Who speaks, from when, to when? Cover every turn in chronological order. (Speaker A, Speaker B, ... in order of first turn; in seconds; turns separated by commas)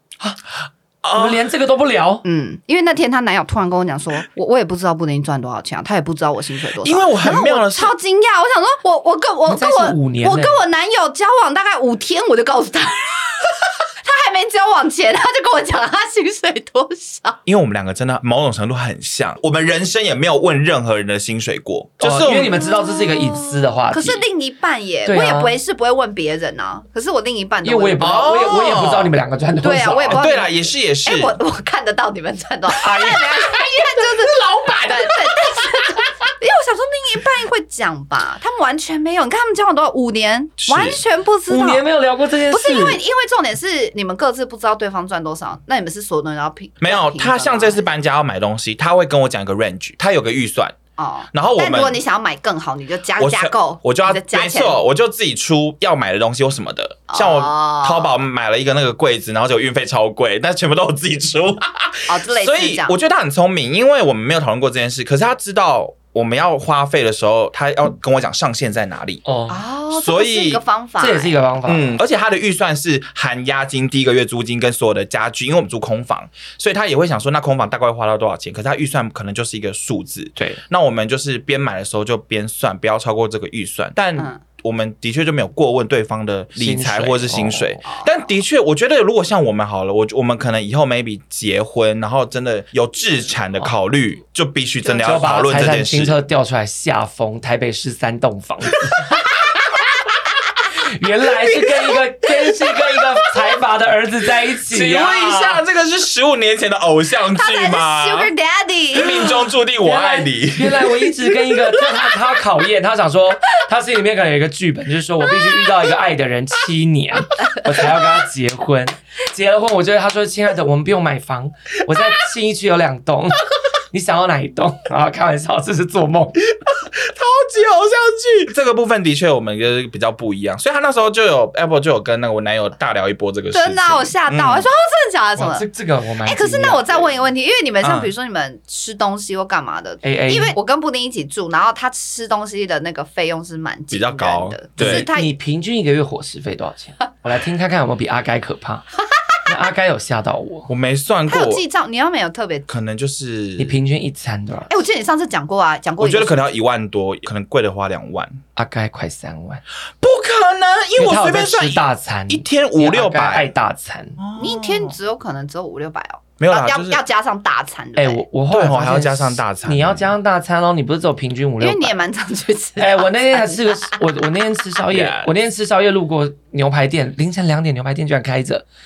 Speaker A: 1.0-1.4, Speaker B: 1.1-2.2, Speaker C: 2.2-13.4, Speaker A: 6.8-7.9, Speaker B: 9.5-10.6, Speaker C: 14.0-17.4, Speaker A: 17.4-22.6, Speaker B: 22.0-24.2, Speaker C: 22.6-28.3, Speaker B: 25.1-25.5, Speaker B: 27.6-30.2, Speaker A: 28.0-29.1, Speaker C: 29.6-41.8, Speaker A: 30.1-31.3, Speaker B: 32.7-35.7, Speaker A: 40.6-41.0, Speaker B: 41.5-43.0, Speaker C: 42.5-47.9, Speaker A: 46.8-50.8, Speaker C: 51.0-54.8, Speaker A: 51.3-52.0, Speaker A: 53.2-69.2, Speaker C: 57.1-58.1, Speaker C: 62.1-62.9, Speaker B: 69.2-69.6, Speaker C: 69.5-71.4, Speaker A: 69.9-70.6, Speaker B: 71.0-72.0, Speaker A: 71.7-96.2, Speaker C: 84.2-84.4, Speaker B: 86.6-87.8, Speaker C: 87.8-88.2, Speaker B: 95.0-99.1, Speaker B: 100.7-105.6, Speaker A: 104.7-108.3, Speaker C: 107.3-109.3, Speaker A: 108.9-111.8, Speaker B: 109.8-126.5, Speaker A: 126.7-134.7, Speaker C: 133.5-135.6, Speaker B: 135.4-137.0, Speaker C: 136.2-145.3, Speaker A: 137.8-138.1, Speaker B: 140.0-140.6, Speaker A: 143.9-145.1, Speaker B: 144.8-148.9, Speaker B: 149.4-150.7, Speaker A: 150.7-151.6, Speaker C: 151.3-152.7, Speaker A: 152.7-153.7, Speaker B: 153.6-154.7, Speaker C: 154.7-156.4, Speaker A: 156.0-158.4, Speaker B: 158.6-159.6, Speaker A: 160.0-163.5, Speaker B: 160.9-164.2, Speaker A: 164.2-164.9, Speaker C: 164.4-168.2, Speaker A: 166.4-167.0, Speaker B: 168.0-171.9, Speaker A: 168.5-170.1, Speaker C: 171.6-174.0, Speaker B: 172.8-178.6, Speaker A: 174.9-175.3